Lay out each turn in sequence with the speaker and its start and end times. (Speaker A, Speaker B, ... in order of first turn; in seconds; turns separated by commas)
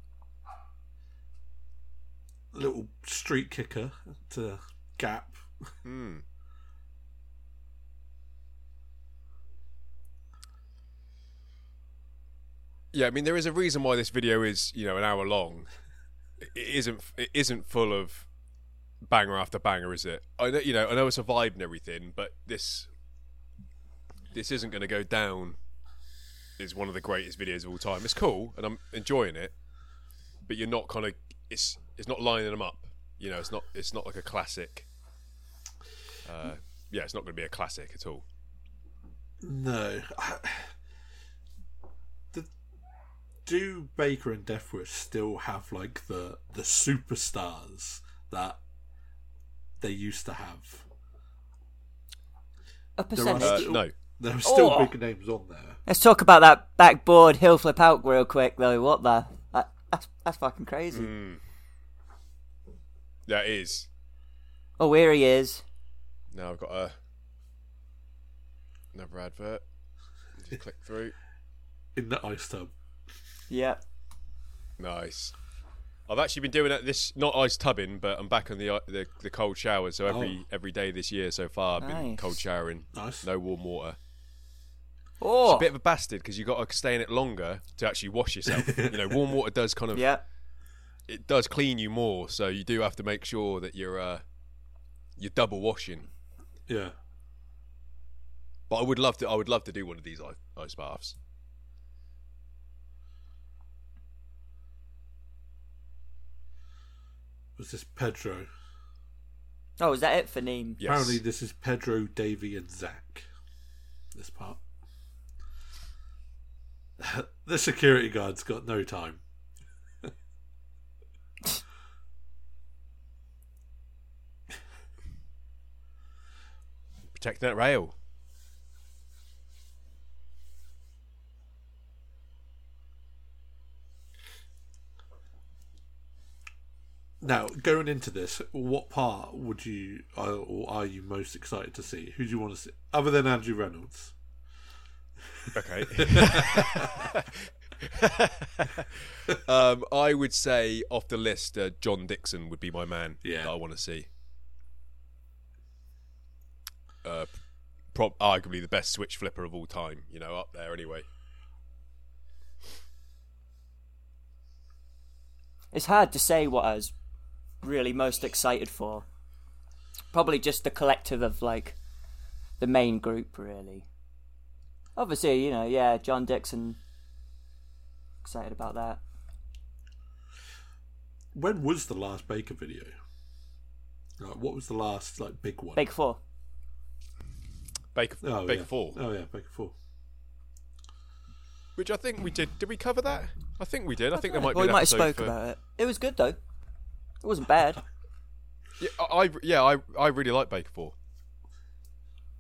Speaker A: 2.5-5.7, Speaker B: 5.8-6.2, Speaker B: 12.9-15.7, Speaker B: 16.4-18.3, Speaker B: 19.1-22.9, Speaker B: 24.3-25.6, Speaker B: 26.6-29.5, Speaker B: 30.5-34.9, Speaker B: 36.3-38.2, Speaker A: 39.4-40.8, Speaker A: 43.5-48.6, Speaker A: 49.8-50.9, Speaker C: 53.0-53.7, Speaker A: 53.1-55.8, Speaker B: 53.4-53.9, Speaker C: 54.4-54.9, Speaker C: 55.9-61.1, Speaker B: 60.9-61.4, Speaker B: 63.3-63.9, Speaker C: 64.8-65.6, Speaker B: 66.3-66.9, Speaker B: 68.9-69.6, Speaker B: 70.4-71.2, Speaker A: 72.0-72.7, Speaker C: 73.5-73.8, Speaker B: 74.8-75.3, Speaker B: 76.1-84.0, Speaker A: 80.1-80.4, Speaker C: 81.8-82.4, Speaker A: 82.9-83.3, Speaker C: 85.2-85.7, Speaker B: 85.5-90.1, Speaker A: 88.5-89.3, Speaker C: 89.9-90.2, Speaker B: 91.1-94.2, Speaker B: 95.2-96.1, Speaker A: 96.7-97.0, Speaker B: 98.7-101.2, Speaker A: 107.6-108.5, Speaker C: 109.8-110.8, Speaker B: 110.8-111.2, Speaker A: 110.8-113.3, Speaker A: 114.1-114.6, Speaker A: 117.0-119.2, Speaker B: 127.1-127.9, Speaker A: 137.2-144.2, Speaker A: 145.2-147.1, Speaker B: 145.6-154.1, Speaker A: 153.2-153.5, Speaker B: 157.0-157.3, Speaker B: 157.9-161.1, Speaker C: 165.7-166.9, Speaker C: 167.6-169.1, Speaker C: 170.1-171.8, Speaker C: 172.6-173.9, Speaker C: 175.0-176.8, Speaker C: 178.2-179.0, Speaker A: 181.3-182.9, Speaker A: 184.2-185.8, Speaker C: 185.8-186.2, Speaker B: 187.9-189.0, Speaker A: 188.2-189.8, Speaker B: 191.8-195.3, Speaker C: 194.2-196.4, Speaker C: 197.2-197.8, Speaker B: 198.8-200.9